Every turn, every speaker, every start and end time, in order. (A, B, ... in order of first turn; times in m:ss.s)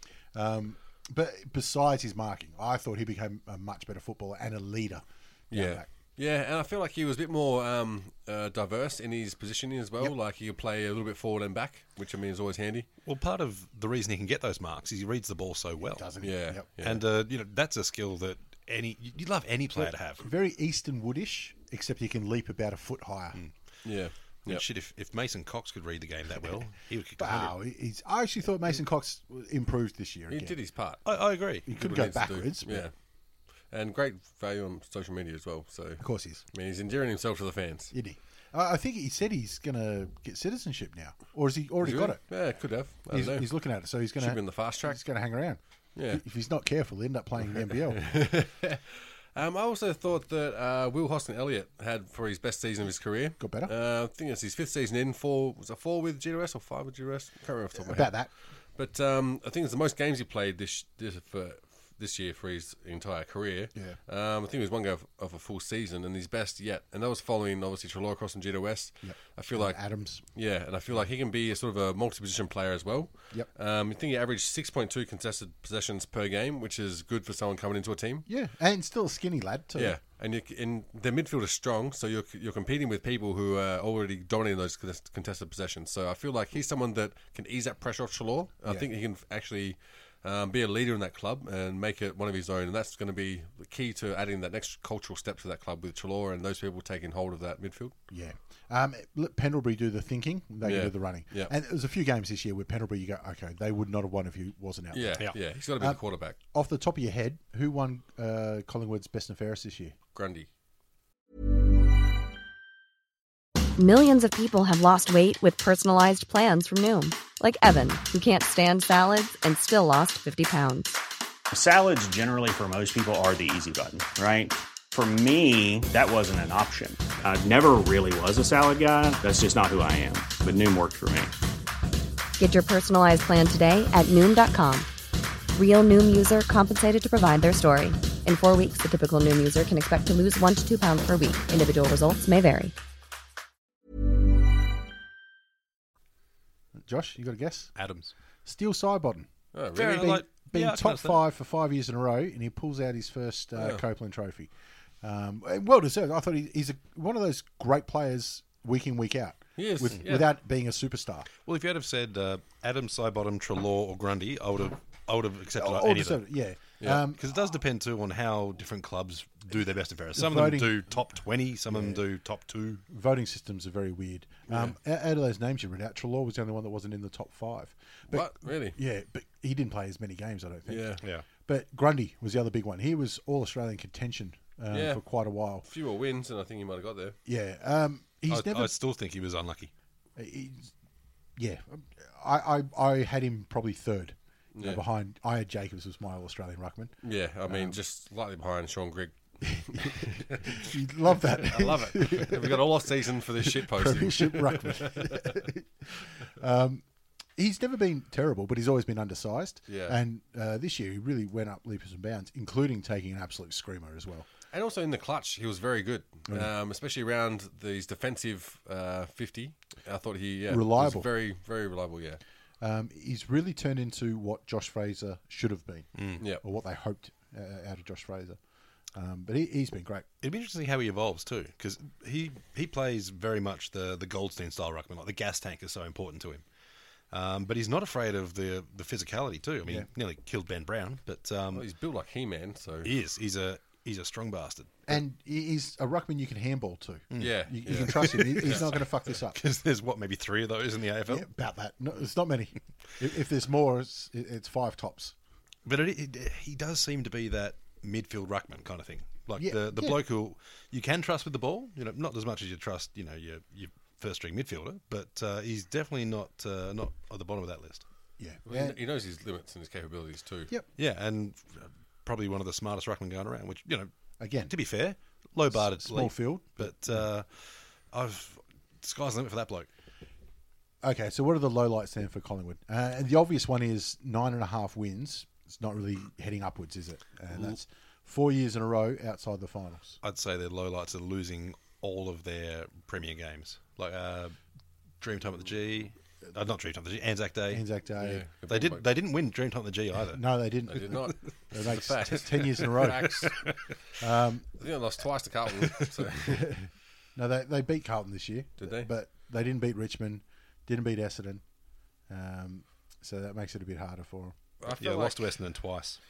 0:00.3-0:05.9 A
0:05.5-0:12.9 B
0:13.0-0:16.1 C
0:16.0-0:16.7 A
0:16.2-0:17.0 B
0:16.8-0:20.3 C
0:19.8-0:23.4 A
0:23.4-0:23.8 C
0:23.8-0:24.6 B
0:24.4-0:27.6 C
0:27.2-0:30.6 A
0:30.3-0:37.9 B
0:31.0-0:31.7 C
0:31.1-0:32.9 A
0:36.0-0:36.4 A
0:37.9-0:48.1 A
0:41.8-0:46.2 B
0:47.7-1:18.3 B
0:53.4-0:53.7 A
0:57.8-0:58.3 A
1:03.7-1:04.0 A
1:09.0-1:11.1 A
1:18.3-1:20.0 A
1:19.8-1:38.0 B
1:38.1-1:50.0 A
1:40.6-1:41.5 B
1:44.9-1:46.4 B
1:50.1-1:50.5 B
1:53.8-2:01.0 D
2:01.5-2:11.3 E
2:12.4-2:14.9 D
2:15.6-2:22.7 D
2:26.8-2:29.3 A
2:27.8-2:28.1 C
2:29.5-2:30.2 B
2:29.8-2:31.2 C
2:29.8-2:41.3 A
2:33.6-2:33.8 B
2:39.6-2:40.3 B
2:41.5-2:52.8 C
2:45.6-2:47.2 A
2:50.1-2:51.0 A
2:51.7-2:52.0 A
2:52.9-3:05.6 A
2:54.5-2:54.8 C
2:58.1-2:58.8 B
3:00.7-3:01.0 B
3:04.7-3:07.2 B
3:07.2-3:08.7 A
3:08.3-3:09.7 C
3:10.2-3:10.8 A
3:11.4-3:17.8 A
3:14.5-3:14.8 B
3:17.0-3:25.3 B
3:19.6-3:22.7 A
3:23.4-3:34.3 A
3:29.7-3:30.0 B
3:34.5-3:42.2 B
3:36.3-3:36.5 A
3:40.5-3:41.1 A
3:42.6-3:50.1 A
3:46.0-3:46.2 C
3:50.2-3:56.5 C
3:57.1-4:01.7 C
4:01.5-4:02.9 B
4:02.8-4:05.0 C
4:04.9-4:09.4 A
4:07.1-4:11.3 C
4:07.2-4:08.7 B
4:11.1-4:15.2 A
4:15.6-4:27.9 C
4:19.4-4:20.0 A
4:28.2-4:28.8 A
4:28.5-4:30.5 B
4:30.8-4:39.7 C
4:34.2-4:37.1 A
4:40.8-4:50.0 A
4:50.0-4:57.8 C
4:57.5-4:58.3 A
4:58.0-4:58.9 B
4:58.4-5:00.4 C
5:00.1-5:04.6 A
5:00.7-5:03.7 B
5:02.5-5:03.6 C
5:04.6-5:06.8 B
5:06.4-5:14.4 A
5:08.6-5:08.9 B
5:14.6-5:15.5 B
5:14.7-5:16.0 C